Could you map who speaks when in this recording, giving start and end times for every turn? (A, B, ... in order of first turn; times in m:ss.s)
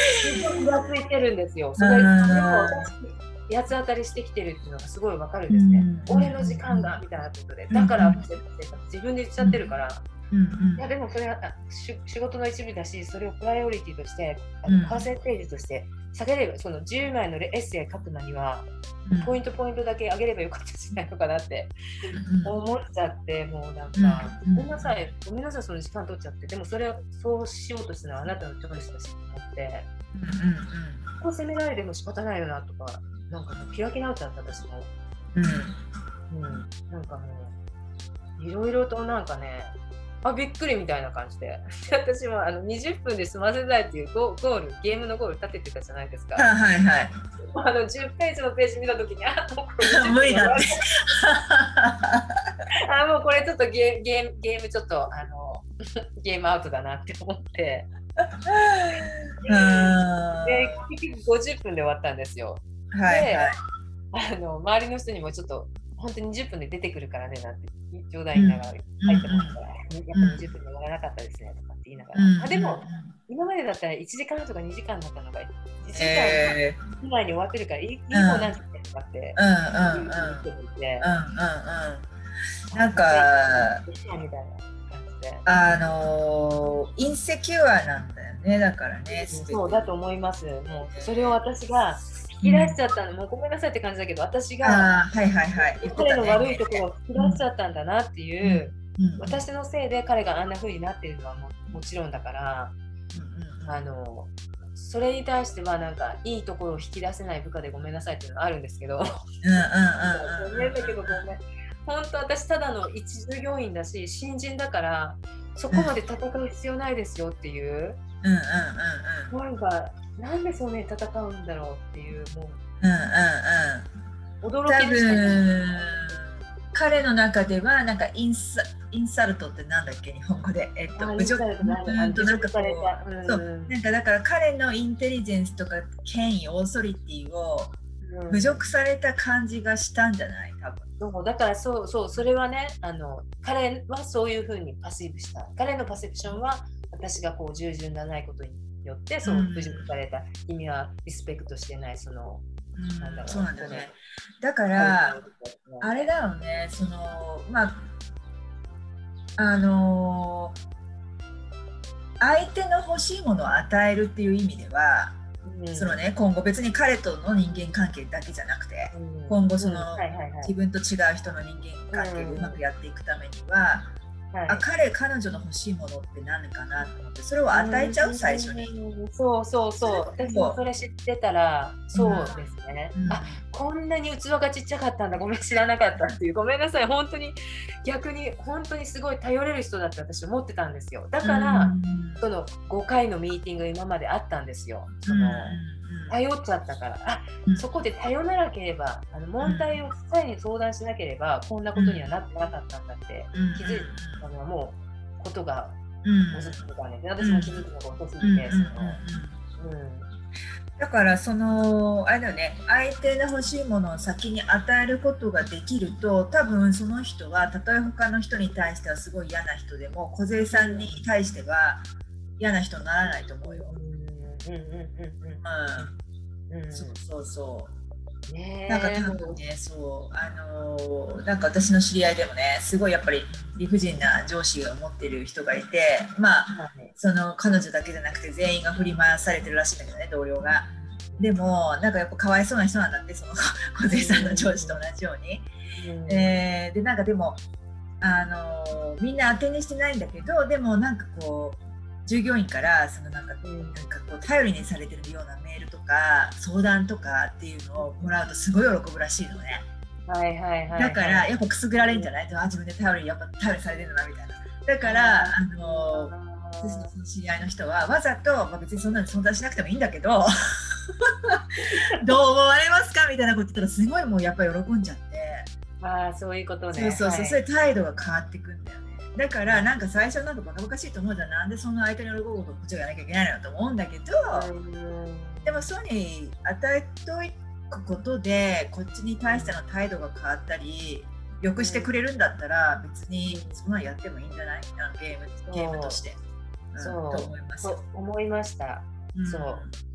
0:00.2-0:10.0 A
0:00.3-0:00.6 B
0:01.8-0:02.9 B
0:05.5-0:06.9 B
0:07.7-0:08.2 B
0:10.3-0:10.8 B
0:10.8-0:18.7 A
0:14.6-0:15.0 B
0:19.0-0:19.4 B
0:19.2-0:21.7 A
0:22.1-0:22.5 B
0:22.4-0:29.9 A
0:24.0-0:25.0 B
0:30.1-0:31.0 B
0:31.2-0:34.9 A
0:35.3-0:35.8 B
0:36.3-0:37.5 A
0:38.4-0:46.5 A
0:46.4-0:47.2 B
0:47.4-0:50.8 A
0:49.8-0:52.3 B
0:52.9-0:57.9 A
0:58.5-1:00.8 B
0:59.4-1:03.5 A
1:02.9-1:03.5 B
1:04.1-1:21.1 A
1:08.3-1:09.6 B
1:10.1-1:10.4 B
1:12.1-1:13.1 B
1:15.9-1:16.8 B
1:18.1-1:18.5 B
1:19.4-1:20.4 B
1:21.0-1:22.1 B
1:22.7-1:25.4 A
1:22.7-1:23.8 B
1:25.4-1:29.9 B
1:29.2-1:34.9 A
1:30.9-1:31.4 B
1:32.4-1:32.8 B
1:34.6-1:37.4 B
1:35.8-1:42.7 A
1:38.4-1:39.4 B
1:43.1-1:43.8 B
1:43.6-1:49.0 A
1:49.4-1:51.2 B
1:50.1-1:58.0 A
1:58.2-1:59.3 B
1:59.3-2:02.6 A
2:02.8-2:03.9 B
2:04.4-2:06.2 A
2:04.7-2:17.8 B
2:11.0-2:13.8 A
2:18.0-2:18.6 A
2:18.3-2:20.8 B
2:21.0-2:32.4 A
2:29.2-2:29.9 B
2:32.8-2:35.2 B
2:33.0-2:33.9 A
2:34.7-2:36.1 A
2:35.8-2:37.9 B
2:39.4-2:40.6 B
2:42.2-2:45.2 B
2:45.4-2:46.0 A
2:45.7-2:53.9 B
2:48.9-2:50.5 A
2:51.9-2:52.6 A
2:54.3-2:54.6 A
2:54.5-2:58.7 B
2:57.5-3:25.8 A
2:59.8-3:00.6 B
3:01.9-3:02.4 B
3:02.9-3:03.4 B
3:11.2-3:12.2 B
3:15.0-3:16.2 B
3:19.4-3:19.7 B
3:21.7-3:22.1 B
3:23.3-3:24.2 B
3:26.0-3:26.6 B
3:26.3-3:29.0 A
3:27.2-3:27.6 B
3:28.2-3:29.4 B
3:29.6-3:30.1 A
3:30.8-3:41.9 B
3:40.5-3:40.9 A
3:42.4-3:43.7 B
3:43.4-3:46.0 A
3:45.4-3:45.9 B
3:46.5-3:47.0 A
3:46.7-3:47.7 B
3:48.3-3:49.4 A
3:48.7-4:05.5 B
3:56.5-3:56.9 A
4:00.4-4:01.2 A
4:03.9-4:04.8 A
4:05.7-4:06.4 A
4:06.1-4:07.4 B
4:08.0-4:19.6 B
4:13.4-4:13.8 A
4:17.8-4:18.1 A
4:20.1-4:22.1 A
4:20.8-4:31.4 B
4:24.8-4:26.9 A
4:31.6-4:32.0 A
4:32.0-4:35.5 B
4:35.8-4:37.4 A
4:36.7-4:44.5 B
4:39.4-4:39.7 A
4:44.3-4:45.7 A
4:45.4-4:56.2 B
4:49.3-4:49.6 A
4:51.6-4:51.9 A
4:53.2-4:53.6 A
4:55.5-4:56.0 A
4:56.7-4:57.8 B
4:56.8-4:59.6 A
4:59.1-4:59.7 B